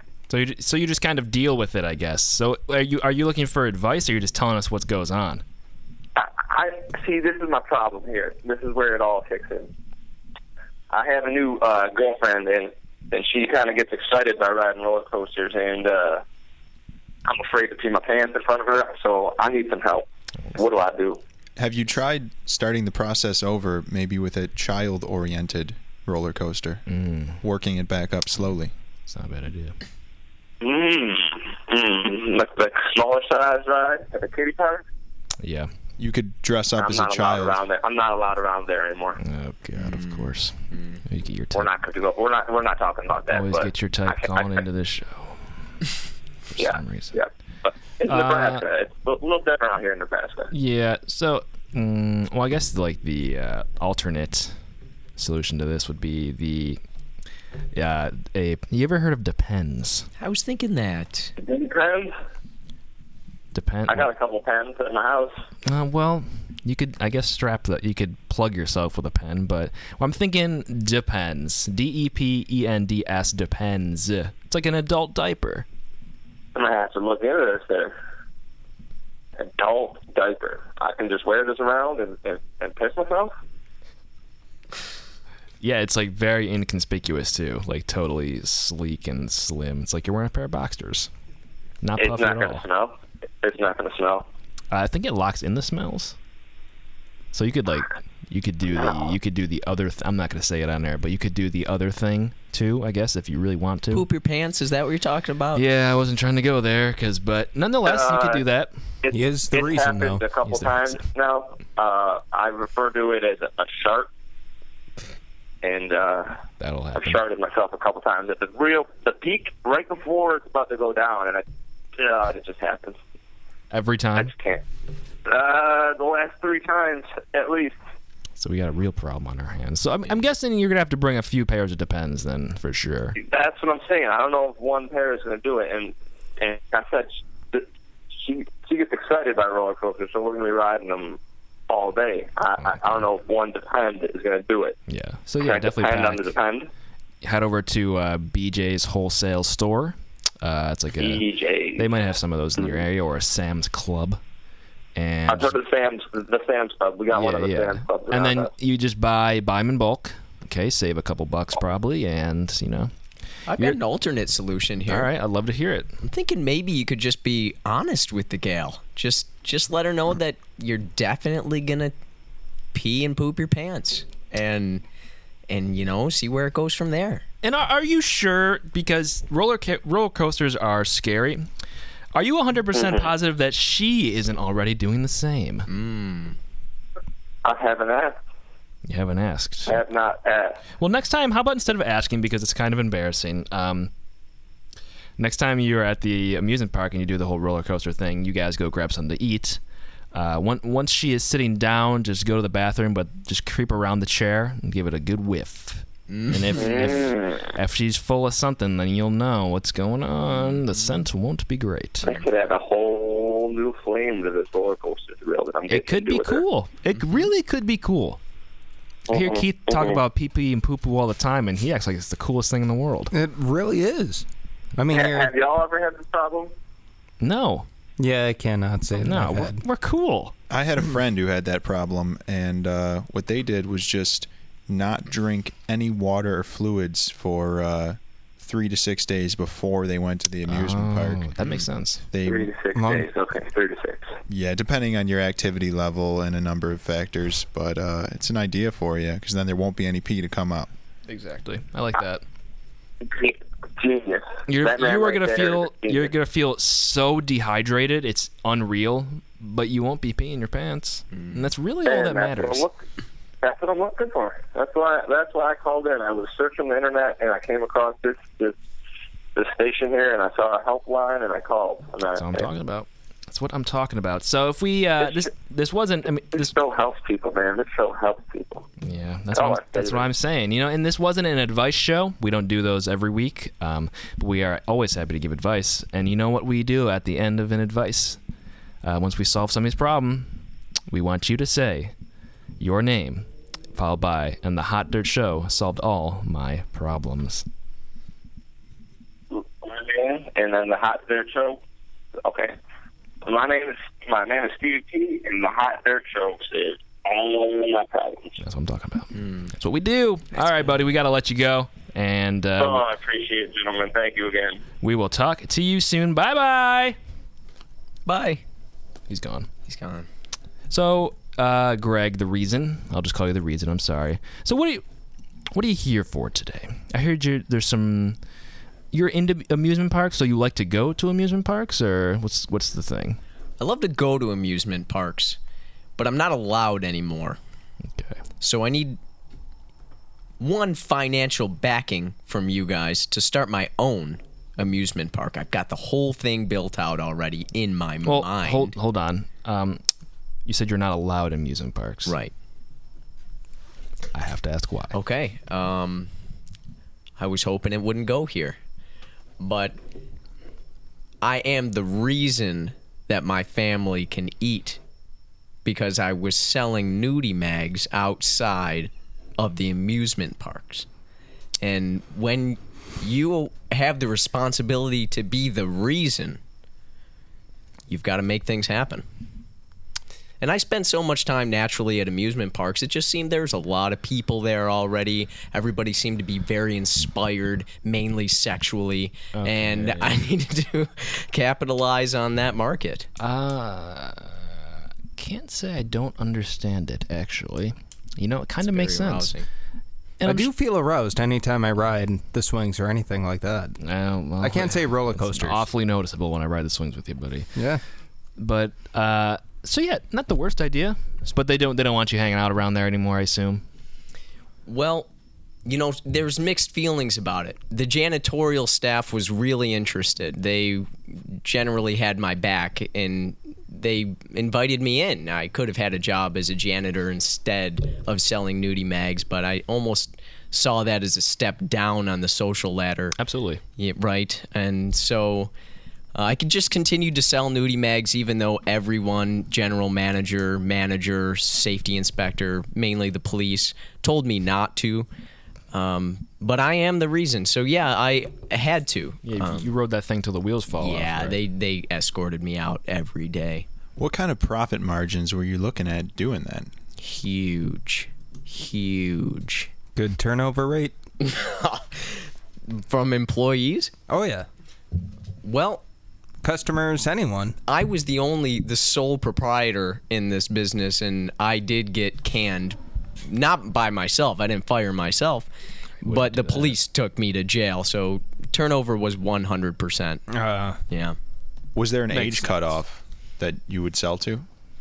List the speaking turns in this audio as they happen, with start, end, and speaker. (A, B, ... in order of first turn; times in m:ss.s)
0:00.3-0:05.4 A
0:06.2-0:09.7 B
0:10.9-0:16.2 B
0:17.2-0:21.2 B
0:21.6-0:26.8 C
0:26.9-0:27.4 A
0:27.4-0:28.7 C
0:29.1-0:29.8 A
0:30.6-0:34.8 B
0:35.4-0:35.7 A
0:36.0-0:37.6 C
0:36.8-0:39.2 B
0:39.2-0:40.6 A
0:39.8-0:41.0 D
0:41.1-0:41.7 A
0:41.5-0:44.6 B
0:43.3-0:45.4 A
0:46.5-0:47.2 A
0:46.6-0:50.5 B
0:48.0-0:48.6 A
0:50.5-0:54.6 A
0:55.2-0:56.8 A
0:57.7-1:00.1 A
1:00.2-1:01.3 D
1:01.4-1:02.1 B
1:03.5-1:04.1 A
1:03.9-1:05.3 B
1:05.7-1:15.7 A
1:16.6-1:18.0 B
1:19.4-1:23.3 B
1:25.6-1:31.1 A
1:31.8-1:32.6 A
1:32.0-1:34.3 B
1:34.7-1:36.2 A
1:37.3-1:44.0 A
1:43.9-1:45.6 D
1:45.6-1:48.8 A
1:47.8-1:48.4 B
1:49.0-1:54.1 B
1:49.1-1:50.2 E
1:50.4-1:51.0 A
1:55.6-1:56.4 B
1:56.6-1:57.2 A
1:56.9-2:01.4 B
2:02.0-2:03.0 B
2:03.7-2:04.3 A
2:04.2-2:04.6 B
2:05.2-2:07.8 B
2:08.4-2:13.2 A
2:13.2-2:17.7 B
2:18.2-2:24.8 B
2:22.6-2:23.0 A
2:24.9-2:26.3 A
2:25.4-2:26.7 B
2:27.2-2:31.2 A
2:31.0-2:31.9 B
2:31.8-2:34.2 A
2:35.0-2:35.6 A
2:35.3-2:38.5 B
2:37.1-2:42.9 A
2:43.5-2:45.1 D
2:44.9-2:45.9 A
2:46.0-2:51.9 D
2:52.7-2:54.8 D
2:55.5-2:57.2 D
2:57.4-3:01.5 A
3:02.2-3:05.7 A
3:02.7-3:03.0 B
3:05.7-3:06.4 D
3:07.4-3:08.2 B
3:08.8-3:09.8 A
3:09.7-3:10.6 B
3:10.8-3:13.9 A
3:15.2-3:19.6 A
3:20.1-3:32.1 A
3:26.1-3:26.7 D
3:26.5-3:27.5 B
3:32.0-3:36.4 B
3:35.7-3:38.2 A
3:39.1-3:40.0 B
3:39.1-3:43.1 A
3:43.1-3:44.2 E
3:44.8-3:45.3 E
3:44.9-3:46.5 B
3:47.2-3:47.7 A
3:48.0-3:49.6 E
3:49.0-3:50.3 A
3:50.5-4:01.3 C
4:00.5-4:02.1 A
4:02.1-4:02.5 C
4:02.2-4:04.1 B
4:02.7-4:03.1 E
4:04.3-4:10.7 C
4:11.1-4:12.2 A
4:13.0-4:16.1 B
4:14.5-4:22.7 A
4:21.8-4:22.8 B
4:23.4-4:28.6 B
4:29.4-4:32.5 B
4:32.2-4:36.5 A
4:35.0-4:35.3 B
4:36.3-4:38.7 B
4:38.8-4:48.2 A
4:39.3-4:40.0 B
4:48.8-4:50.4 A
4:50.9-4:51.9 A
4:52.6-4:57.5 A
4:59.3-5:01.6 B
5:02.2-5:02.6 B
5:03.2-5:08.4 B
5:08.4-5:12.8 A
5:09.2-5:09.5 D
5:12.6-5:14.6 B
5:14.8-5:17.0 A
5:18.1-5:18.4 D
5:19.1-5:19.5 A
5:19.7-5:20.1 D
5:20.7-5:24.8 A
5:25.5-5:28.2 A
5:28.9-5:33.2 A
5:33.6-5:35.4 D
5:36.0-5:37.4 D
5:38.4-5:39.0 D
5:40.4-5:48.7 D
5:48.0-5:49.8 A
5:50.5-5:52.2 A
5:52.1-5:52.3 D
5:54.1-5:55.0 A
5:54.9-5:56.1 D
5:57.2-5:58.6 D
5:59.4-5:59.8 D
6:01.2-6:04.8 D
6:05.6-6:10.9 D
6:11.6-6:16.4 D
6:17.9-6:19.0 D
6:20.4-6:33.1 D
6:29.3-6:30.2 A
6:33.2-6:39.3 A
6:38.6-6:39.4 D
6:40.2-6:40.5 A
6:40.2-6:43.8 E
6:43.8-6:47.5 A
6:44.4-6:45.7 E
6:47.6-6:47.8 E
6:48.4-6:53.6 A
6:54.7-6:55.1 D
6:55.7-7:13.2 D
7:13.2-7:13.6 A
7:13.8-7:15.5 D
7:16.2-7:25.1 D
7:25.7-7:29.7 D
7:29.2-7:31.4 A
7:30.8-7:33.7 D
7:34.0-7:36.7 C
7:37.0-7:39.7 D
7:40.0-7:41.0 E
7:41.2-7:43.9 D
7:44.1-7:44.5 E
7:45.4-7:45.8 D
7:46.4-7:47.6 E
7:47.7-7:55.5 D
7:56.0-7:56.8 A
7:56.0-8:00.2 D
8:00.3-8:00.8 E
8:00.9-8:01.2 D
8:01.8-8:04.5 C
8:02.1-8:02.5 E